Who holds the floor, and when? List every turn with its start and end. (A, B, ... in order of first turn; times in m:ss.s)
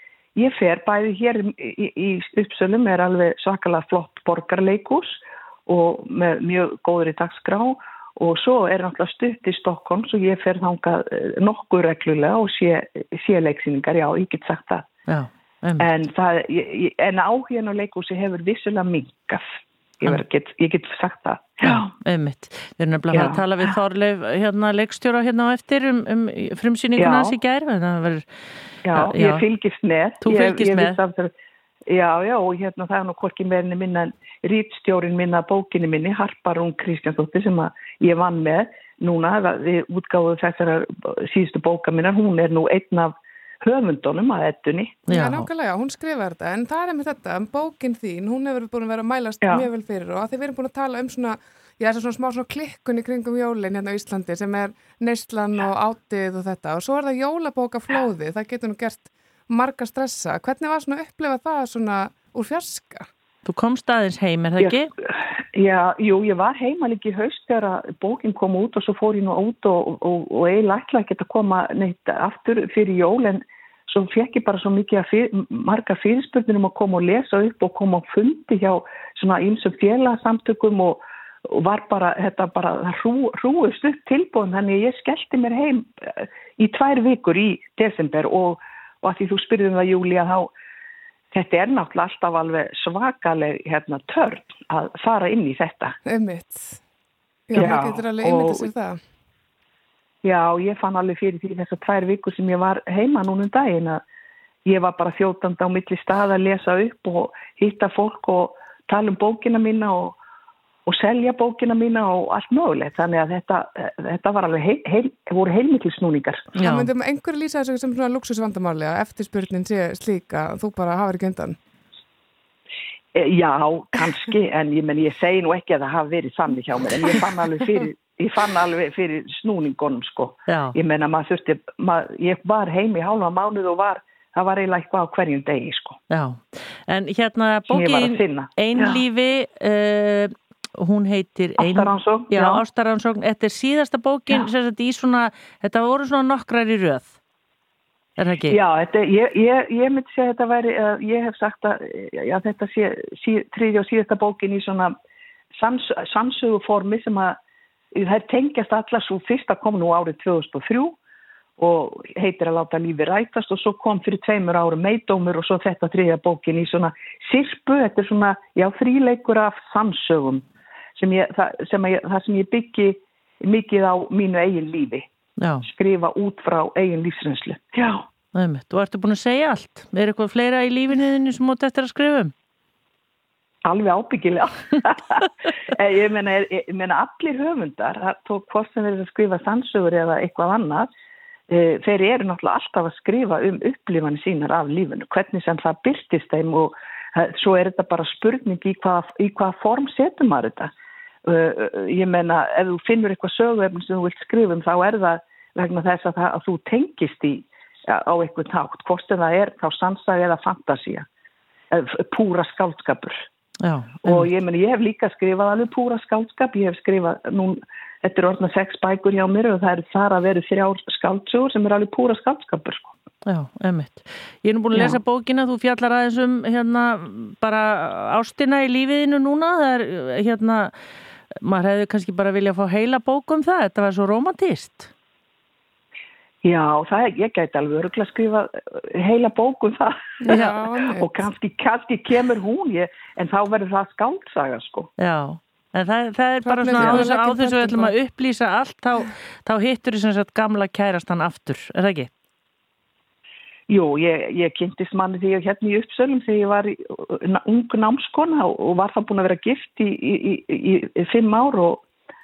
0:00.4-0:14.9 A
0:15.1-0:15.9 B
0:15.8-0:19.4 A
0:20.0-0:21.9 A
0:21.6-0:28.3 B
0:23.1-0:23.7 A
0:27.0-0:27.4 A
0:28.8-0:31.3 A
0:28.9-0:29.5 B
0:30.2-0:31.0 B
0:31.9-0:45.1 A
0:45.1-1:03.1 C
0:45.1-0:45.5 B
0:49.4-0:49.7 A
1:03.4-1:04.9 B
1:05.5-1:30.5 A
1:31.3-1:36.0 A
1:36.1-1:36.8 C
1:37.5-1:39.0 C
1:37.5-1:38.7 A
1:40.2-1:44.0 A
1:44.7-1:50.2 A
1:50.9-1:56.5 A
1:56.6-1:56.9 B
1:56.6-2:01.6 C
2:03.2-2:16.0 A
2:10.5-2:10.8 B
2:16.1-2:27.2 B
2:17.7-2:19.0 A
2:21.6-2:22.6 A
2:28.2-2:28.6 B
2:28.5-2:34.9 A
2:35.6-2:37.4 A
2:37.9-2:41.0 A
2:41.6-2:50.5 A
2:51.0-2:55.1 A
2:55.4-2:55.7 B
2:55.6-2:58.1 A
2:58.4-3:02.3 B
3:03.6-3:10.9 A
3:11.5-3:20.7 A
3:21.3-3:31.1 A
3:31.7-3:33.2 A
3:33.6-3:34.3 B
3:34.0-3:42.9 A
3:43.3-3:50.8 B
3:51.4-3:54.9 B
3:56.4-4:00.2 A
4:00.2-4:01.1 C
4:00.3-4:00.6 B
4:01.0-4:04.9 A
4:05.0-4:12.1 B
4:06.4-4:07.9 C
4:06.8-4:07.0 A
4:13.7-4:21.8 A